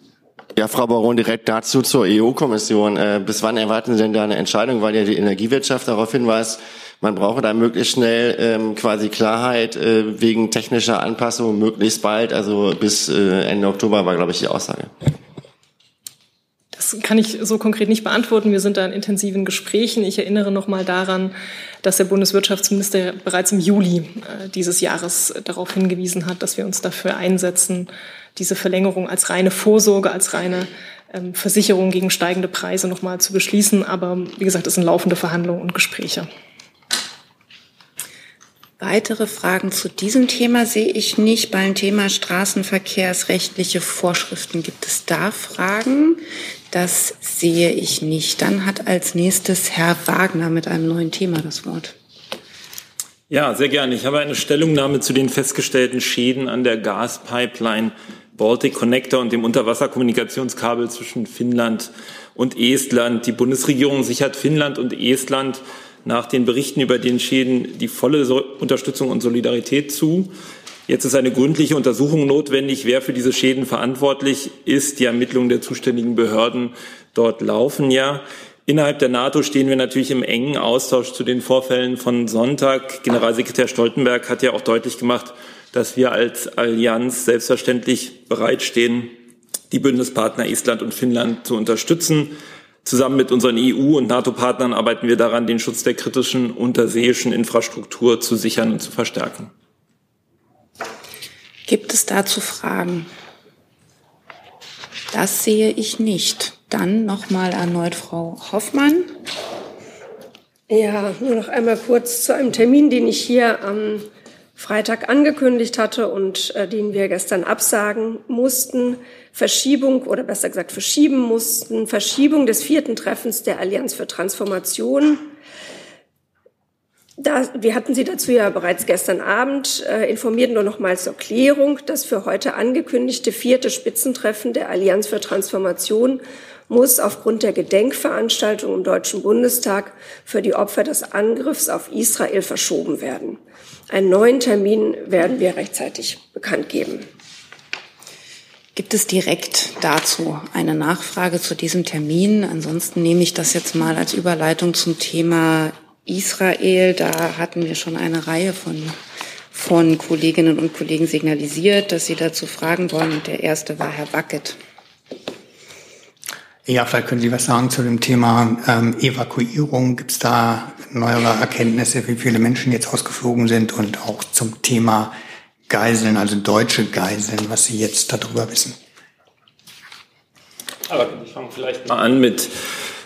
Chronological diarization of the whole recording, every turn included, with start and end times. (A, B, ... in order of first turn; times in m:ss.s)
0:00.6-0:14.9 A
0:16.7-0:36.3 B
0:38.8-0:51.9 C
0:53.3-1:10.3 D
1:10.9-1:29.1 D
1:29.7-1:32.3 D
1:32.8-1:39.5 D
1:41.7-1:43.1 C
1:45.1-1:49.1 C
1:50.7-1:54.0 E
1:54.6-2:05.3 E
2:07.2-2:27.1 E
2:28.7-2:39.0 C
2:39.5-2:44.6 C
2:46.7-2:55.1 F
2:55.7-2:58.7 F
3:00.9-3:02.5 D